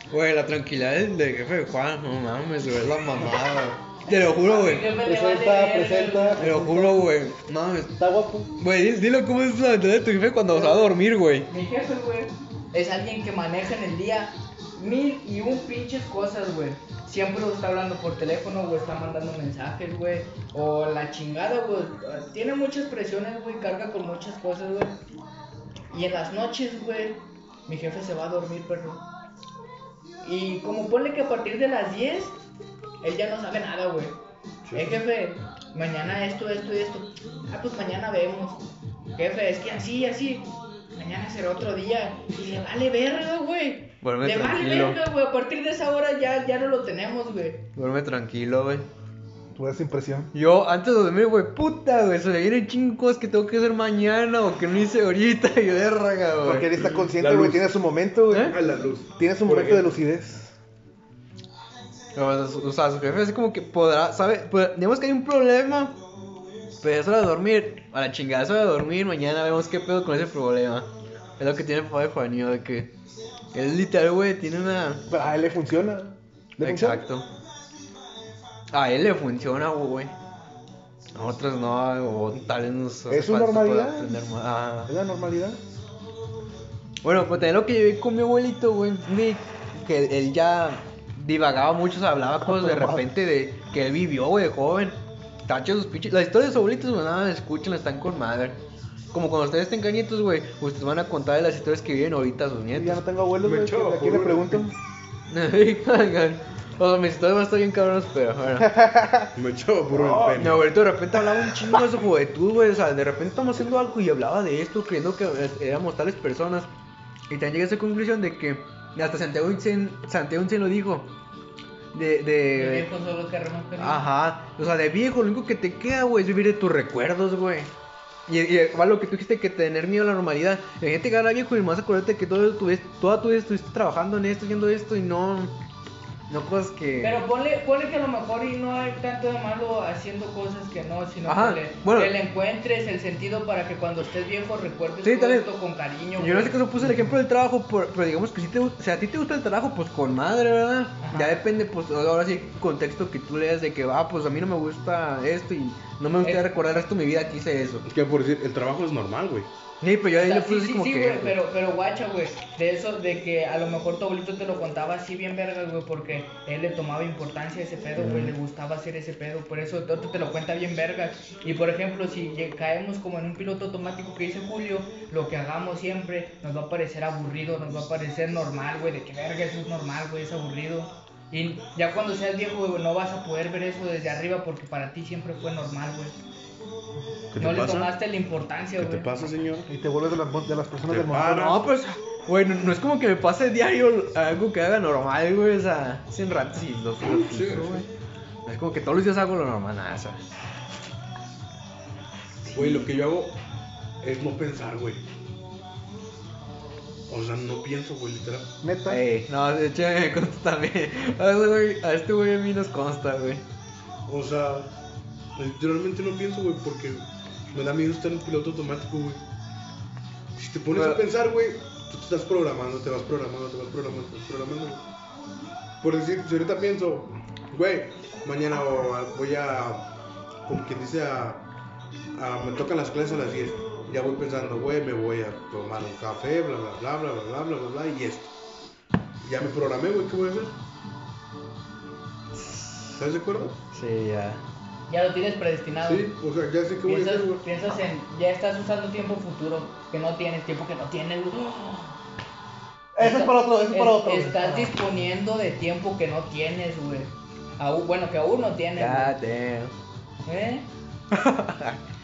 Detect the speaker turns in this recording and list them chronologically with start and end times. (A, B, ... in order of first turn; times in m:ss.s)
0:00.1-0:05.0 A
0:04.1-0:06.4 B
0:05.0-0:07.1 C
0:06.4-0:08.0 A
0:08.0-0:08.5 C
0:08.6-0:11.5 A
0:10.5-0:11.0 B
0:11.5-0:25.0 B
0:25.9-0:29.0 B
0:30.2-0:32.4 B
0:33.0-0:34.2 B
0:34.7-0:35.0 D
0:34.7-0:38.6 B
0:39.2-0:47.6 B
0:44.0-0:45.0 A
0:47.8-0:48.9 A
0:49.5-0:50.3 C
0:50.3-0:56.7 A
0:56.4-0:58.6 C
0:56.5-0:57.7 D
0:58.3-0:58.6 A
0:58.5-1:00.0 D
0:59.2-1:00.5 C
1:02.2-1:06.0 A
1:06.8-1:12.9 A
1:13.5-1:15.0 A
1:15.1-1:17.0 C
1:16.6-1:17.3 A
1:18.7-1:20.1 A
1:21.1-1:24.9 A
1:23.1-1:24.2 C
1:24.9-1:25.6 C
1:27.0-1:38.6 A
1:32.5-1:33.0 C
1:39.1-1:43.0 A
1:42.7-1:44.8 C
1:43.4-1:44.7 D
1:45.3-1:48.7 A
1:48.6-1:49.3 C
1:49.4-1:50.7 D
1:50.0-1:56.7 A
1:50.0-1:50.3 C
1:57.3-2:01.1 A
2:01.9-2:02.9 A
2:02.6-2:04.1 B
2:03.8-2:07.7 A
2:08.3-2:15.5 A
2:16.3-2:17.2 A
2:17.0-2:27.2 B
2:21.3-2:22.2 A
2:25.0-2:25.5 A
2:26.2-2:37.9 A
2:31.0-2:31.4 B
2:36.2-2:36.5 B
2:37.9-2:39.5 D
2:39.8-2:41.4 A
2:40.1-3:06.2 B
2:48.0-2:48.3 A
3:07.3-3:07.9 D
3:07.4-3:09.1 B
3:08.8-3:09.7 D
3:09.7-3:11.5 C
3:10.9-3:11.7 D
3:11.2-3:17.9 A
3:17.0-3:17.9 D
3:18.4-3:20.2 A
3:22.5-3:22.9 A
3:22.5-3:23.4 D
3:24.0-3:25.0 D
3:27.1-3:28.5 D
3:28.6-3:29.0 C
3:28.9-3:33.4 A
3:34.1-3:34.7 D
3:35.4-3:39.2 D
3:40.4-3:44.8 D
3:40.7-3:41.0 A
3:45.8-3:49.9 D
3:50.5-3:51.4 D
3:52.2-3:58.3 D
3:59.2-4:00.5 D
4:03.0-4:03.6 D
4:03.7-4:04.4 A
4:04.9-4:06.1 B
4:05.8-4:07.4 D
4:06.8-4:12.0 B
4:13.0-4:14.7 C
4:13.0-4:19.2 B
4:18.8-4:19.7 A
4:20.3-4:20.7 B
4:21.1-4:21.8 A